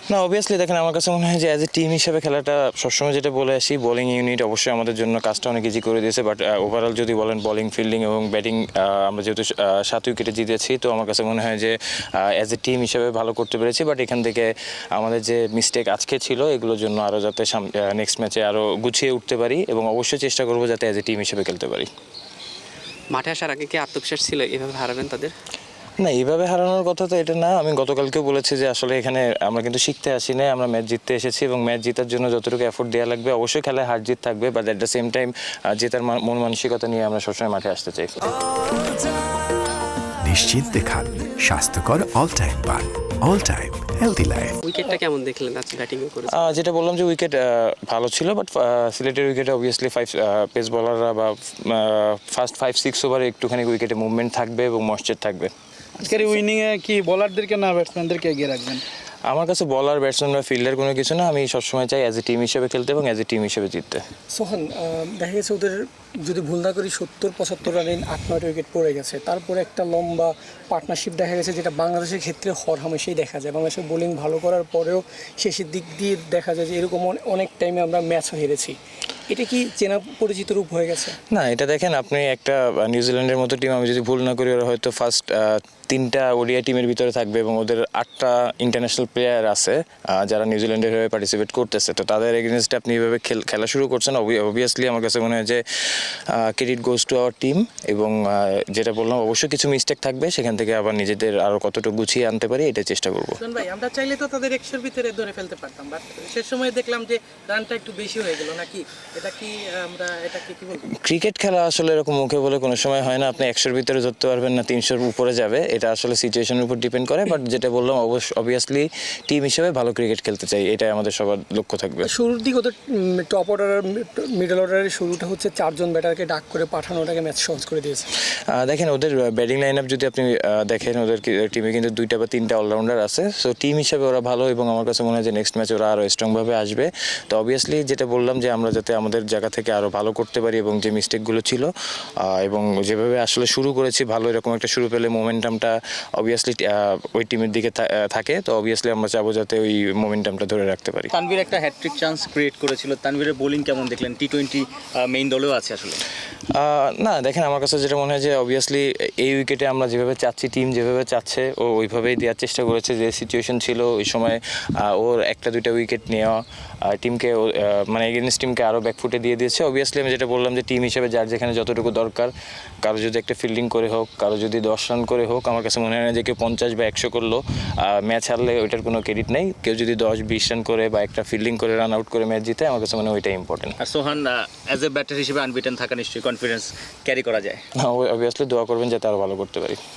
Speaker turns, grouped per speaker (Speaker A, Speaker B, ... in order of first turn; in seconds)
Speaker A: 0.1-21.9, 26.0-38.2, 46.3-55.5, 59.3-64.0, 81.3-95.6, 96.3-103.4, 111.0-122.1, 128.5-141.7, 142.2-151.1, 156.5-172.3, 172.8-183.8, 187.8-189.8
Speaker B: 23.1-25.3, 44.6-46.6
Speaker C: 40.2-44.6
Speaker D: 56.0-58.8
Speaker E: 64.3-78.8, 79.3-81.2, 122.0-128.1
Speaker F: 103.4-110.8
Speaker G: 151.1-156.0, 183.8-187.6